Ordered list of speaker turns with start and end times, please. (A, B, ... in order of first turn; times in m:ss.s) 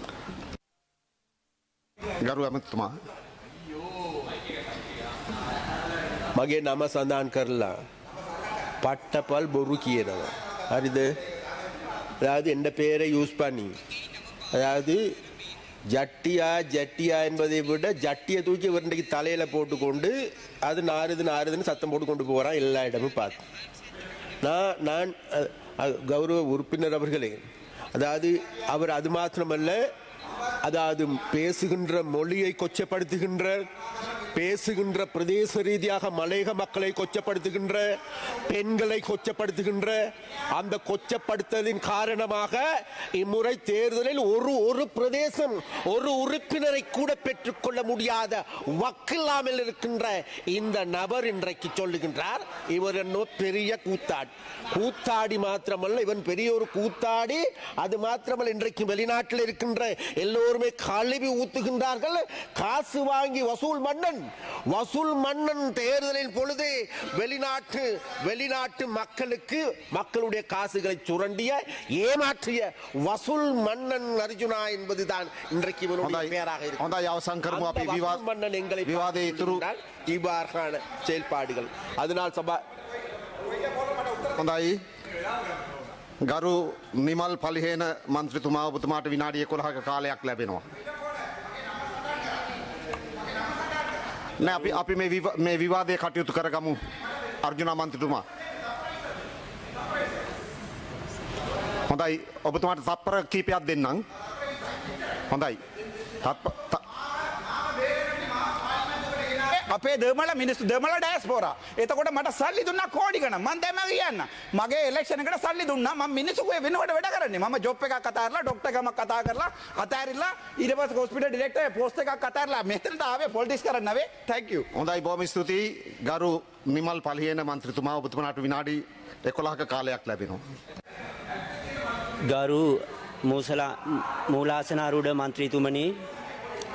0:02.2-0:03.0 A
0:06.4-0:07.8 B
0:08.8-0:11.2 B
0:12.2-0:13.8 B
0:14.5-0:15.0 B
0:15.9-0:23.5 B
0:24.4-0:27.4 B
0:27.9-0:29.8 B
0:30.6-0:33.7 B
0:34.3-0:40.0 B
0:40.5-1:16.9 B
1:16.0-1:18.2 A
1:17.5-1:22.6 B
1:18.8-1:19.6 A
1:24.4-1:24.8 A
1:26.2-1:30.7 A
1:34.4-1:36.8 A
1:37.4-1:38.3 A
1:41.9-1:44.0 A
1:45.3-1:45.6 A
1:46.2-1:46.8 A
1:49.1-2:04.7 C
2:04.7-2:10.4 A
2:12.3-2:16.0 D